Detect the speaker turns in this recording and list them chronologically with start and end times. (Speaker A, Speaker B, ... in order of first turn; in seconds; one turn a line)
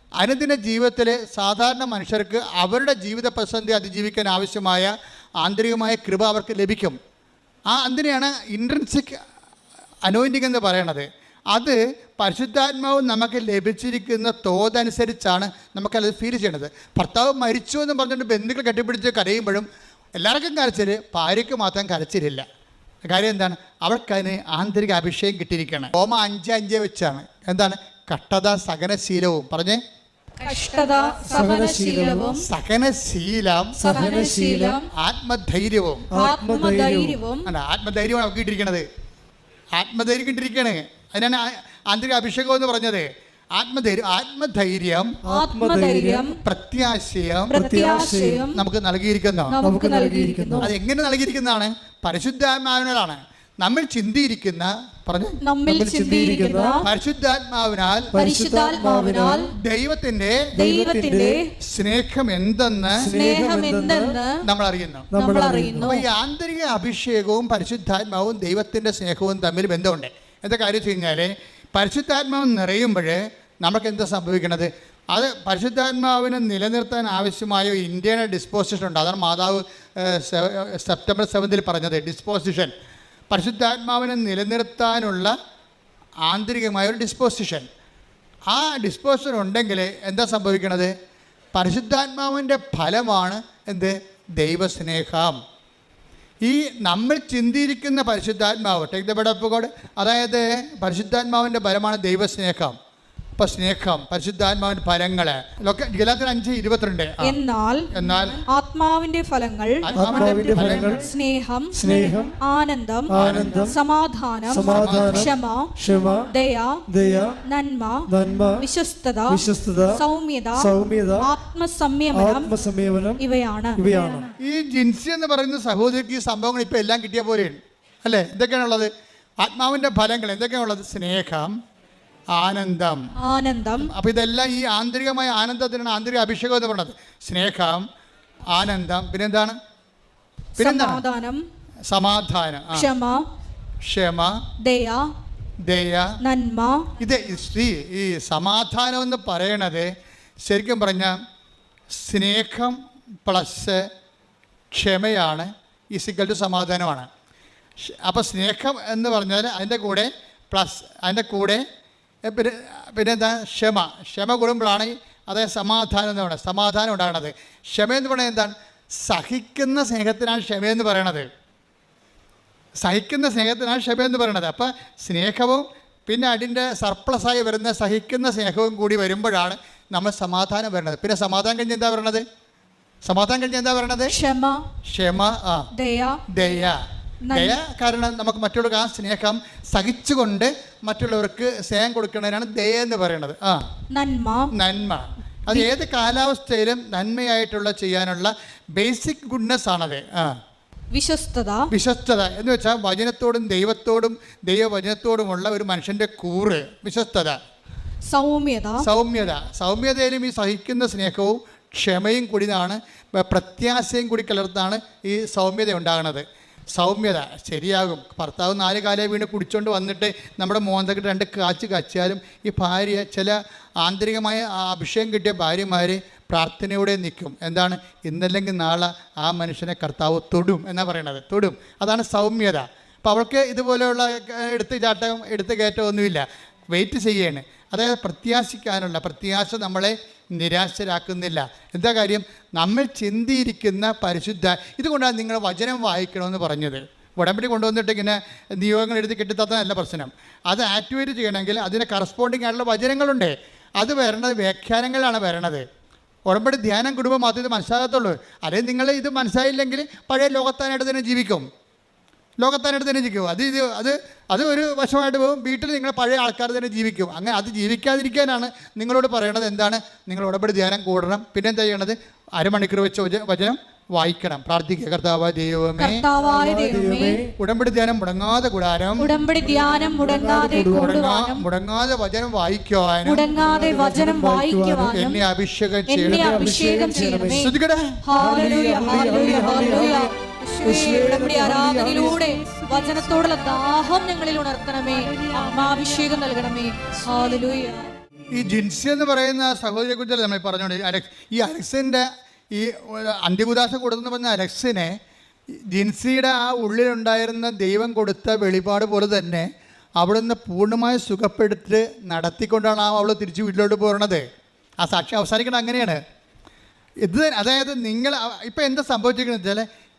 Speaker A: 0.2-7.0
Speaker A: 7.7-9.2
Speaker A: 10.0-22.4
Speaker A: 23.1-29.8
Speaker B: 30.4-32.4
Speaker C: 31.2-32.4
Speaker A: 32.4-33.8
Speaker C: 33.8-34.8
Speaker B: 33.8-34.9
Speaker A: 35.0-36.1
Speaker C: 36.1-37.2
Speaker B: 36.1-37.5
Speaker A: 37.5-38.9
Speaker A: 39.8-45.2
Speaker C: 45.2-46.3
Speaker B: 45.3-46.4
Speaker A: 46.4-47.5
Speaker C: 47.5-48.5
Speaker B: 47.5-48.6
Speaker A: 48.5-49.5
Speaker B: 49.5-50.7
Speaker C: 49.6-50.7
Speaker A: 50.6-55.4
Speaker B: 55.4-56.9
Speaker C: 55.7-56.9
Speaker A: 56.8-58.1
Speaker C: 58.1-59.5
Speaker B: 58.2-59.5
Speaker A: 59.6-60.5
Speaker C: 60.5-61.4
Speaker B: 60.6-61.5
Speaker A: 61.6-63.1
Speaker C: 63.0-64.2
Speaker B: 63.1-64.4
Speaker A: 64.4-65.1
Speaker C: 65.1-66.0
Speaker B: 65.2-66.0
Speaker A: 65.8-82.7
Speaker A: 83.3-85.3
Speaker A: 86.3-87.7
Speaker A: 88.5-90.9
Speaker A: 91.5-95.4
Speaker A: 96.4-102.8
Speaker A: 103.4-107.4
Speaker B: 107.2-107.9
Speaker A: 107.9-108.4
Speaker B: 108.5-115.7
Speaker A: 109.8-111.0
Speaker C: 110.0-111.1
Speaker C: 111.7-112.4
Speaker C: 113.1-113.8
Speaker A: 113.2-113.6
Speaker C: 114.5-116.3
Speaker A: 114.7-115.3
Speaker B: 116.3-116.8
Speaker C: 116.9-117.4
Speaker B: 117.5-122.5
Speaker C: 118.1-118.7
Speaker C: 119.3-120.0
Speaker C: 120.6-121.3
Speaker C: 122.1-123.2
Speaker B: 123.2-123.8
Speaker C: 123.8-124.3
Speaker A: 124.4-131.6
Speaker A: 132.3-133.0
Speaker B: 133.2-133.9
Speaker A: 133.9-137.9
Speaker A: 138.5-139.6
Speaker A: 140.6-141.0
Speaker B: 140.6-141.4
Speaker A: 141.9-142.9
Speaker B: 142.7-143.3
Speaker A: 143.8-144.4
Speaker B: 144.6-145.1
Speaker A: 145.7-146.1
Speaker B: 146.2-146.9
Speaker A: 147.0-149.9
Speaker A: 150.4-151.2
Speaker A: 151.9-153.9
Speaker A: 154.7-157.1
Speaker A: 157.8-161.6
Speaker A: 162.3-171.3
Speaker A: 172.8-182.2
Speaker A: 183.0-184.2
Speaker B: 184.1-184.6
Speaker A: 184.9-185.7
Speaker B: 185.8-186.2
Speaker A: 186.3-186.8
Speaker B: 187.3-187.6
Speaker A: 187.3-193.6
Speaker B: 193.9-194.5
Speaker A: 194.5-200.4
Speaker B: 200.9-201.7
Speaker A: 201.7-207.4
Speaker B: 208.1-208.9
Speaker A: 208.8-255.7
Speaker A: 256.3-261.5
Speaker A: 262.4-276.0
Speaker B: 275.8-277.2
Speaker C: 276.2-277.3
Speaker A: 277.4-279.1
Speaker B: 279.0-281.4
Speaker C: 279.3-281.0
Speaker A: 280.5-283.2
Speaker B: 283.1-285.2
Speaker C: 283.3-285.0
Speaker A: 284.9-286.5
Speaker B: 285.9-297.9
Speaker C: 286.0-287.5
Speaker A: 287.4-288.0
Speaker C: 288.1-292.4
Speaker A: 298.3-305.0
Speaker A: 305.7-309.5
Speaker A: 310.0-314.2
Speaker A: 314.8-316.0
Speaker A: 317.0-319.6